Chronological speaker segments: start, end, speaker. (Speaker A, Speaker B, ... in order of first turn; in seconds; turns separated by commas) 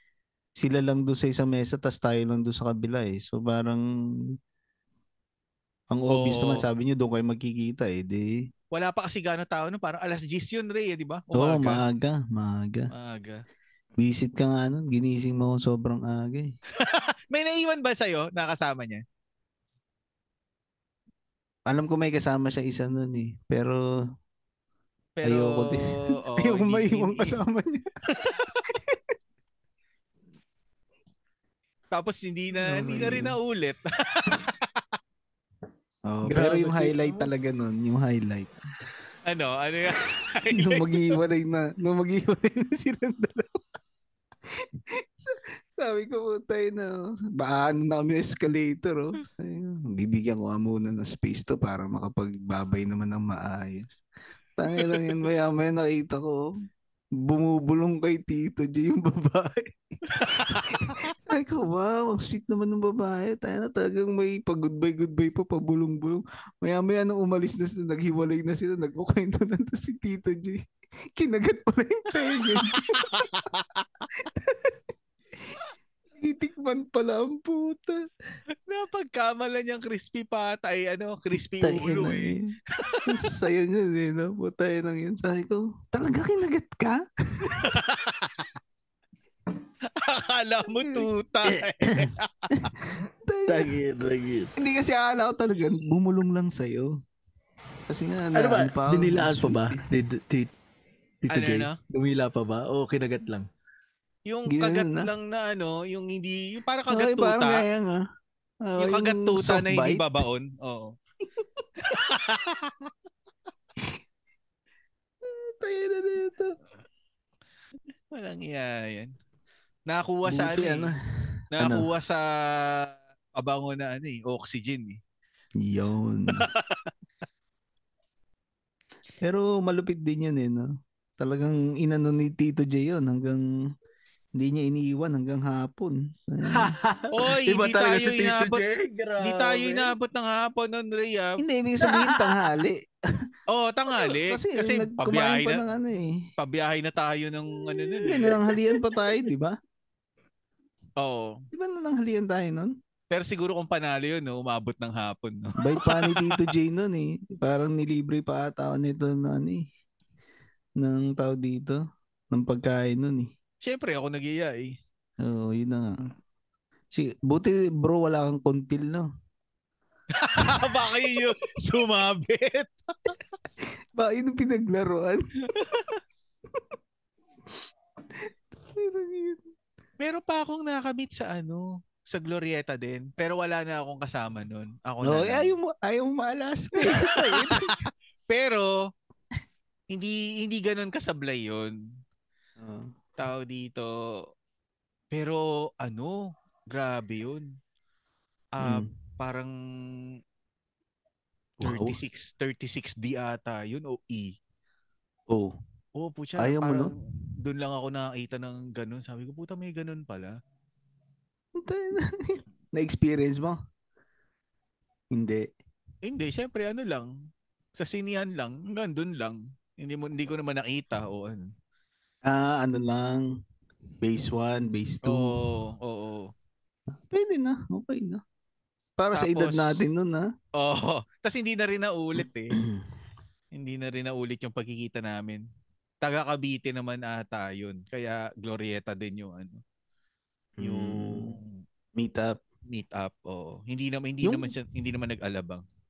Speaker A: 0.6-3.9, Speaker A: 5.9-8.4, Speaker B: 6.1-6.7, Speaker B: 8.7-11.8, Speaker A: 11.3-12.9, Speaker B: 12.9-13.4, Speaker A: 14.0-16.5, Speaker B: 16.8-19.0, Speaker A: 21.7-23.8, Speaker B: 25.2-27.4, Speaker A: 25.2-27.9, Speaker B: 28.1-28.6, Speaker A: 28.7-29.0, Speaker B: 31.9-34.6, Speaker A: 32.6-33.3, Speaker A: 36.1-38.5, Speaker C: 36.2-37.3, Speaker B: 39.2-41.1, Speaker A: 40.5-43.6, Speaker A: 44.5-53.9, Speaker A: 54.6-56.4, Speaker B: 54.7-55.1, Speaker A: 57.2-73.3, Speaker B: 60.1-61.1, Speaker B: 72.4-73.6, Speaker A: 74.2-74.8, Speaker A: 76.2-78.0, Speaker B: 78.7-83.3, Speaker A: 81.6-87.7, Speaker B: 87.5-88.5, Speaker B: 90.0-92.7, Speaker A: 92.6-93.7, Speaker C: 93.5-94.5, Speaker A: 94.6-97.0, Speaker A: 97.9-99.8, Speaker C: 98.3-100.5, Speaker C: 101.2-103.5, Speaker B: 101.3-101.8, Speaker B: 104.3-107.6, Speaker A: 104.5-105.1, Speaker A: 106.9-108.0, Speaker A: 108.6-110.0, Speaker B: 108.8-110.9, Speaker B: 111.8-112.9, Speaker A: 115.2-116.5, Speaker B: 118.1-119.1, Speaker B: 119.9-120.9, Speaker A: 120.2-121.9, Speaker B: 121.5-125.0, Speaker A: 125.6-126.5, Speaker B: 126.3-126.9, Speaker A: 129.2-133.4, Speaker A: 134.4-136.8, Speaker C: 136.5-139.9, Speaker B: 137.1-138.6, Speaker B: 139.2-141.4, Speaker A: 141.4-142.8, Speaker C: 141.8-142.5, Speaker B: 143.5-145.6, Speaker A: 144.0-146.2, Speaker B: 146.4-148.4, Speaker A: 148.1-149.6, Speaker B: 151.0-151.4, Speaker A: 151.5-152.7, Speaker B: 153.1-156.5, Speaker A: 155.6-159.6, Speaker A: 160.8-161.8, Speaker A: 162.3-163.3, Speaker B: 163.6-164.8, Speaker A: 165.2-166.0, Speaker A: 166.9-169.1, Speaker B: 170.2-173.1, Speaker A: 173.9-175.2, Speaker B: 175.5-176.0, Speaker A: 178.6-179.4, Speaker B: 180.0-185.5, Speaker A: 185.0-187.8, Speaker B: 186.8-187.7, Speaker B: 188.3-188.7, Speaker B: 189.9-191.7, Speaker A: 192.6-192.9, Speaker B: 193.2-193.9, Speaker B: 195.1-197.5, Speaker B: 198.5-199.5, Speaker A: 198.6-198.9, Speaker A: 201.6-202.0, Speaker B: 201.6-204.3, Speaker B: 205.9-210.3, Speaker A: 206.4-206.9, Speaker A: 211.6-213.6, Speaker A: 215.1-215.5, Speaker B: 216.0-217.1, Speaker B: 217.8-221.5, Speaker A: 222.2-223.3, Speaker A: 224.0-225.4, Speaker B: 225.0-226.3, Speaker A: 227.0-228.2, Speaker A: 229.0-230.3, Speaker B: 229.1-229.8, Speaker B: 230.6-232.6, Speaker A: 232.5-232.8, Speaker B: 233.5-235.4, Speaker B: 236.0-239.6, Speaker A: 240.6-241.3, Speaker B: 240.6-241.6, Speaker A: 242.0-242.4, Speaker B: 242.7-245.6, Speaker A: 244.2-244.5